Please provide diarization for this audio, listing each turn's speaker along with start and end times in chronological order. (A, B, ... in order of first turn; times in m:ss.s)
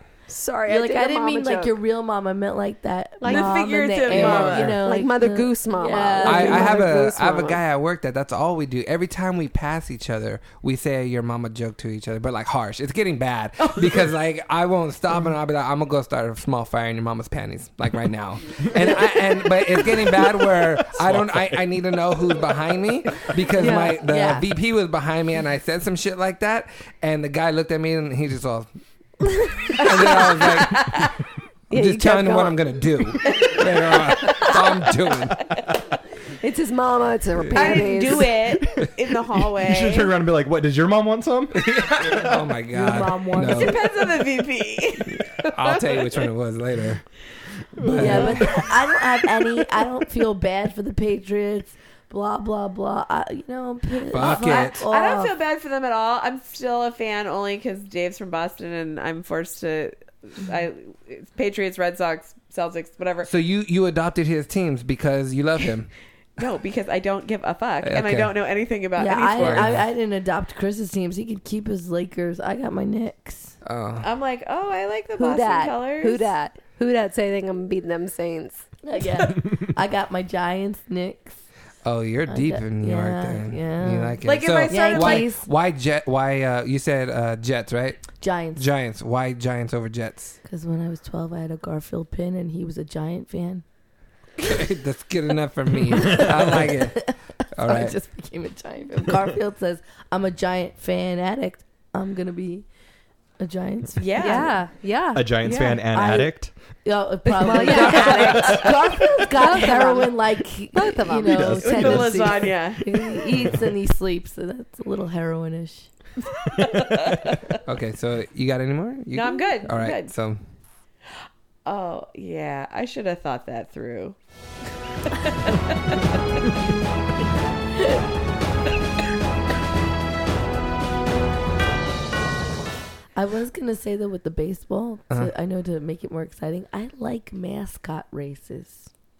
0:00.3-0:01.8 A
0:00.7-0:06.8 B
0:03.2-0:07.6 A
0:03.3-0:04.8 C
0:06.2-0:28.7 D
0:21.0-0:21.4 E
0:23.6-0:24.5 B
0:23.6-0:23.9 A
0:29.8-0:31.0 D
0:29.8-0:31.2 C
0:31.7-0:32.6 A
0:31.7-0:35.4 D
0:33.3-0:34.8 C
0:36.4-0:38.6 A
0:37.5-0:40.1 C
0:39.6-0:42.3 E
0:41.5-0:43.8 D
0:42.7-0:43.9 B
0:43.5-0:46.0 C
0:45.1-0:47.0 D
0:47.8-0:48.6 D
0:47.8-0:55.3 B
0:48.1-0:48.4 C
0:54.1-0:54.8 D
0:54.2-1:03.3 C
1:03.2-1:05.9 D
1:06.4-1:09.8 C
1:07.8-1:08.3 D
1:09.0-1:13.5 B
1:09.3-1:09.8 D
1:13.6-1:14.1 D
1:14.0-1:16.3 C
1:15.2-1:18.7 A
1:18.8-1:21.4 B
1:21.8-1:30.4 D
1:22.3-1:25.4 B
1:24.2-1:25.3 C
1:28.2-1:28.6 B
1:30.4-1:33.6 B
1:34.4-1:37.9 D
1:36.0-1:37.1 B
1:37.6-1:42.6 B
1:43.4-1:44.4 B
1:44.0-1:44.5 C
1:44.2-1:45.6 A
1:45.1-1:46.5 E
1:45.4-1:45.8 C
1:45.9-1:46.3 B
1:46.8-1:55.9 B
1:47.3-1:50.2 A
1:47.6-1:48.7 C
1:48.2-1:48.6 E
1:50.7-1:51.8 A
1:51.2-1:53.7 E
1:51.6-1:52.8 C
1:56.9-1:57.4 C
1:57.6-2:00.4 D
1:59.1-2:00.1 C
2:01.6-2:04.2 C
2:05.1-2:06.0 C
2:13.2-2:18.9 B